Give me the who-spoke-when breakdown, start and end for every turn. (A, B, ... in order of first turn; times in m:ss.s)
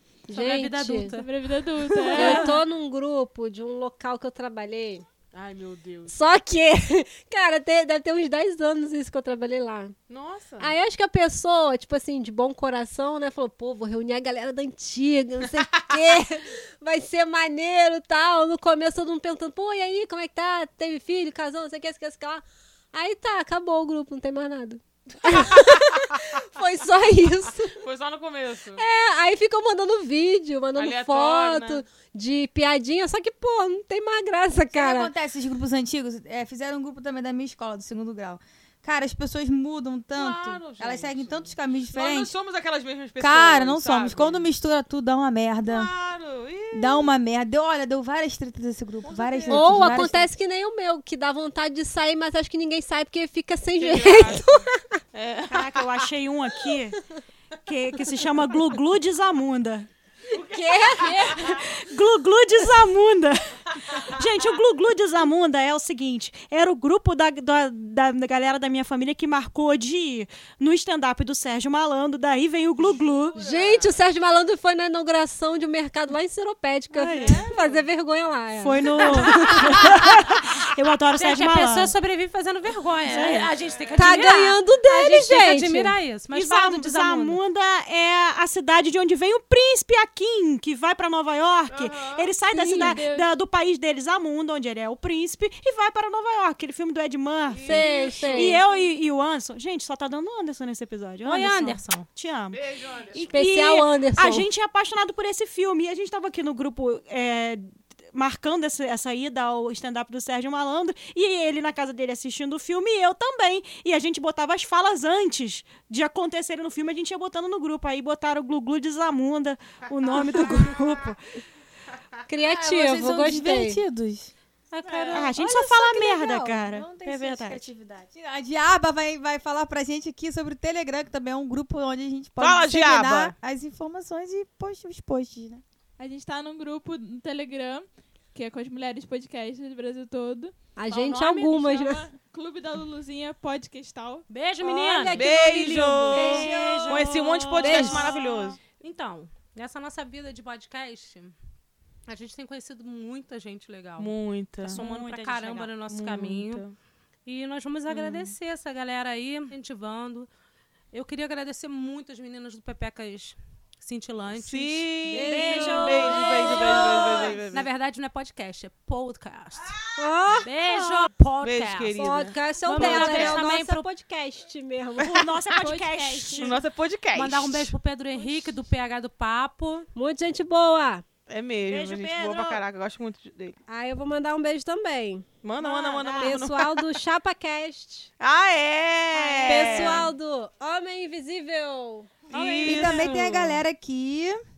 0:00.3-0:01.1 A
0:00.3-0:01.3 B
0:01.1-0:02.5 C
0:02.1-0:05.0 A
0:02.1-0:02.6 B
0:05.3-0:06.1 D
0:06.1-0:09.9 A
0:10.1-0:10.7 D
0:10.6-0:27.8 A
0:25.2-0:25.7 D
0:27.7-0:28.8 D
0:28.8-0:35.1 A
0:30.7-0:31.8 D
0:34.7-0:42.3 E
0:40.1-0:44.4 D
0:43.2-0:45.9 E
0:45.6-0:47.1 D
0:46.7-0:50.3 E
0:49.0-0:50.0 D
0:49.5-0:55.0 A
0:53.8-0:56.1 D
0:55.5-0:57.0 F
0:57.7-0:59.9 F
1:00.3-1:01.6 D
1:00.4-1:01.5 A
1:01.3-1:13.4 F
1:03.9-1:04.2 D
1:12.9-1:13.9 D
1:13.3-1:20.0 A
1:16.9-1:17.5 F
1:17.0-1:17.8 D
1:18.6-1:21.9 F
1:21.2-1:27.4 B
1:23.1-1:23.5 F
1:23.8-1:24.2 D
1:23.9-1:26.0 A
1:26.3-1:42.6 F
1:31.7-1:32.3 D
1:32.5-1:33.0 A
1:32.7-1:33.3 C
1:37.5-1:38.6 D
1:37.6-1:38.6 A
1:38.4-1:38.7 C
1:41.2-1:42.0 B
1:42.5-1:43.4 D
1:43.1-2:01.2 F
1:43.3-1:44.5 A
2:00.0-2:01.0 D
2:02.3-2:03.8 A
2:02.5-2:04.3 E
2:04.7-2:05.3 B
2:04.8-2:05.3 D
2:05.1-2:07.6 F
2:05.4-2:15.6 E
2:12.4-2:13.3 D
2:16.0-2:20.5 C
2:20.8-2:22.0 A
2:21.1-2:24.2 C
2:24.3-2:27.0 B
2:25.0-2:26.1 A
2:25.1-2:28.6 D
2:26.1-2:28.5 F
2:26.1-2:26.9 E
2:27.6-2:28.1 A
2:28.8-2:31.3 B
2:32.1-2:36.6 B
2:34.0-2:34.8 D
2:34.7-2:35.8 F
2:35.9-2:36.7 D
2:37.2-2:40.3 B
2:37.9-2:38.3 D
2:40.9-2:45.6 B
2:44.3-2:47.7 D
2:45.1-2:47.4 A
2:45.1-2:47.3 F
2:47.5-2:49.7 B
2:50.0-2:50.5 A
2:50.4-2:53.8 B
2:51.4-2:53.4 D
2:51.9-2:55.2 A
2:55.1-2:56.6 F
2:55.5-2:56.6 C
2:56.4-2:57.7 D
2:57.1-2:59.9 B
2:59.9-3:01.0 A
3:01.3-3:03.6 D
3:01.7-3:02.6 F
3:03.7-3:05.2 A
3:05.4-3:06.8 D
3:05.6-3:06.4 F
3:06.2-3:08.1 A
3:08.2-3:10.1 D
3:09.1-3:10.0 F
3:09.4-3:13.0 A
3:12.3-3:13.6 D
3:12.3-3:13.1 F
3:12.6-3:14.4 E